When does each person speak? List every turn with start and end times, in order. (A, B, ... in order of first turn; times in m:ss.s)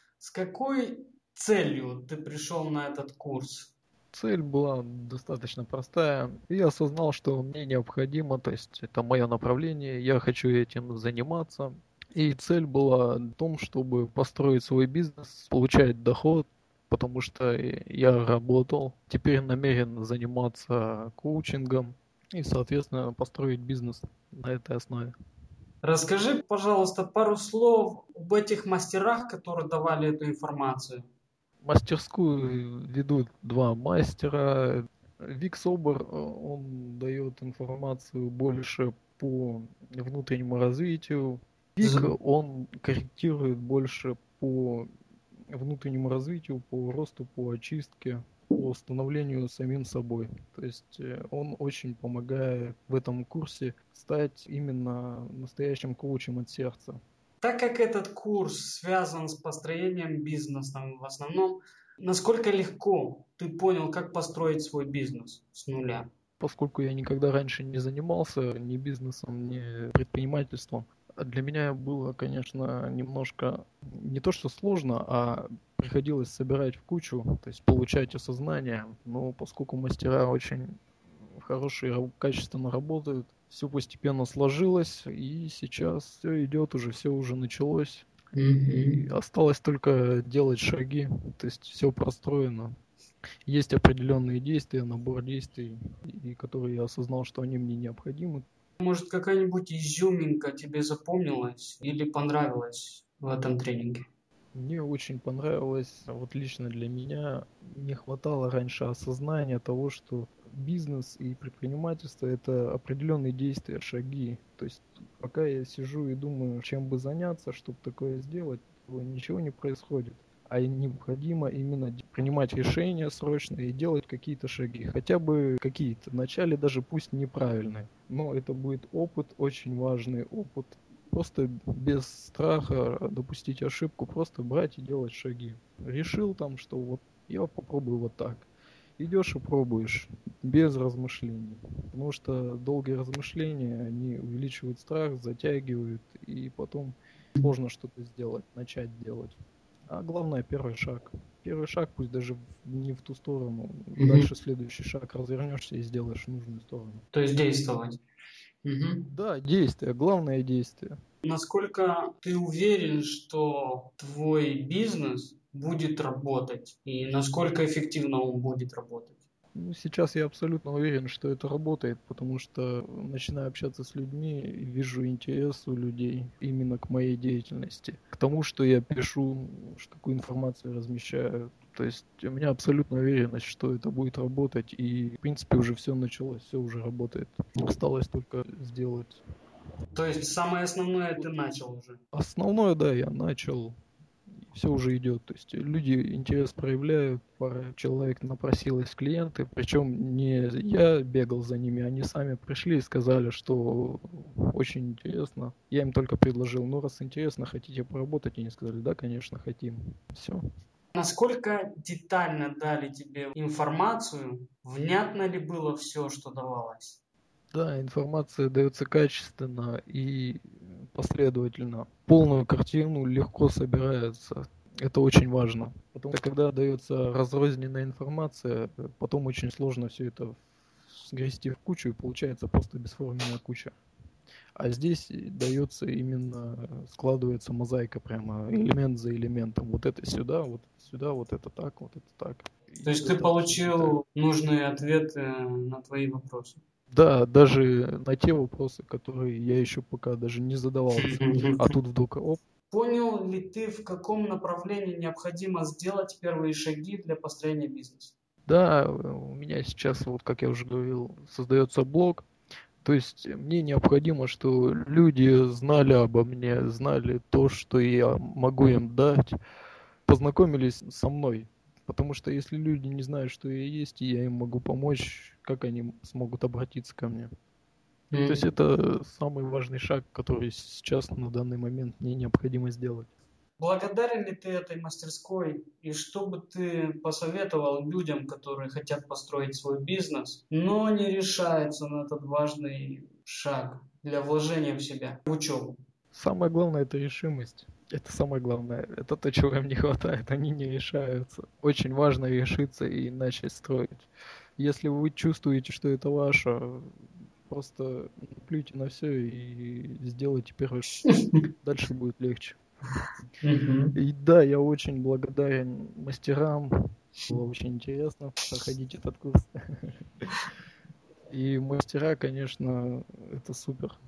0:00.2-0:03.7 A
0:04.1-0:25.1 B
0:25.8-0:31.0 A
0:31.6-0:44.9 B
0:41.8-0:42.1 A
0:45.5-0:57.0 B
0:57.4-1:06.1 A
1:06.4-1:20.6 B
1:21.3-1:28.1 B
1:28.4-1:29.0 A
1:28.8-1:32.7 B
1:33.4-1:38.4 B
1:38.8-1:44.0 A
1:44.5-2:18.5 B
2:19.0-2:29.4 B
2:29.9-2:37.0 B
2:34.0-2:34.3 A
2:37.1-2:38.0 A
2:38.6-2:39.0 A
2:39.1-2:40.9 B
2:41.2-2:49.2 A
2:49.5-3:09.2 B
3:09.9-3:12.0 A
3:12.1-3:13.7 B
3:14.5-3:30.4 B
3:31.0-3:37.0 A
3:37.5-3:53.7 B
3:54.6-4:04.0 B
4:02.8-4:06.6 A
4:06.9-4:12.4 B
4:10.9-4:11.7 A
4:12.7-4:18.1 A
4:18.5-4:22.3 B
4:22.8-4:29.3 B
4:30.0-4:37.3 B
4:38.1-4:38.5 A
4:38.2-4:43.1 B
4:43.6-4:55.8 A
4:56.1-5:06.9 B
5:07.5-5:10.9 B
5:11.1-5:11.4 A
5:11.6-5:12.6 B
5:13.4-5:13.9 A
5:13.9-5:16.7 B
5:17.3-5:20.2 B
5:21.3-5:23.9 B